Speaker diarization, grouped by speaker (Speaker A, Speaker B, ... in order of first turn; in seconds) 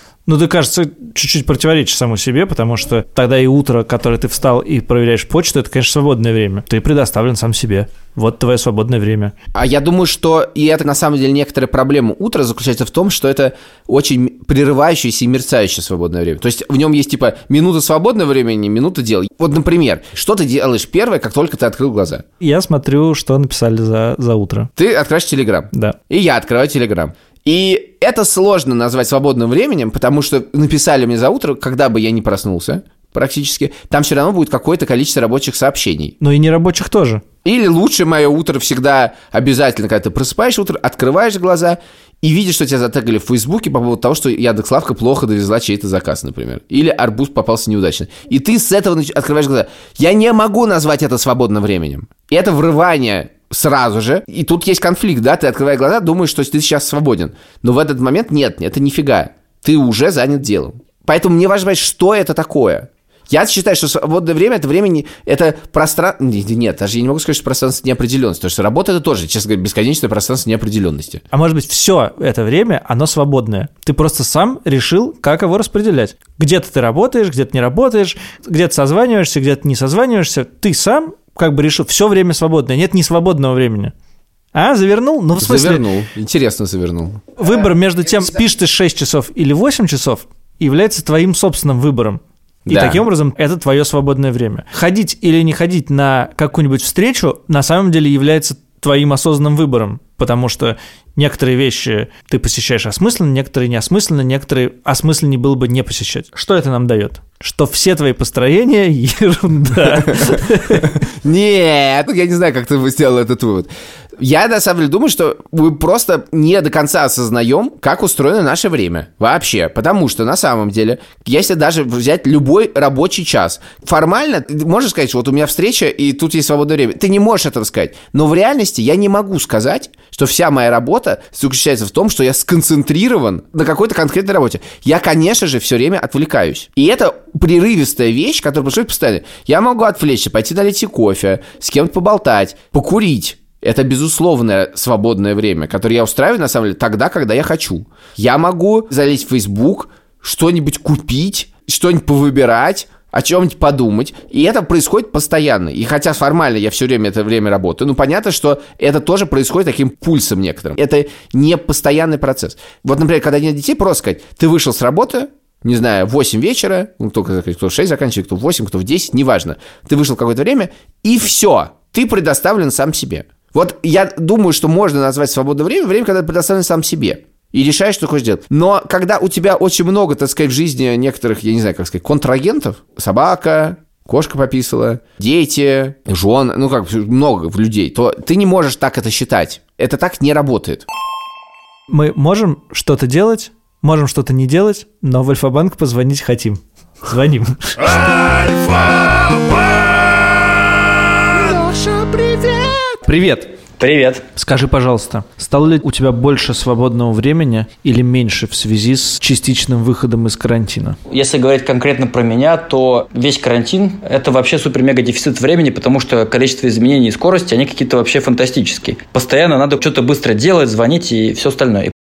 Speaker A: 0.2-9.3, 22.4-24.7, 25.7-26.0, 36.2-37.2, 71.3-83.9, 84.5-85.8, 87.4-110.9, 191.9-199.3, 201.3-203.5, 204.3-211.0
Speaker B: 9.5-22.2, 24.8-36.1, 37.4-71.2, 85.4-87.4, 92.7-93.0, 110.1-190.8
Speaker C: 203.8-204.2, 211.1-221.9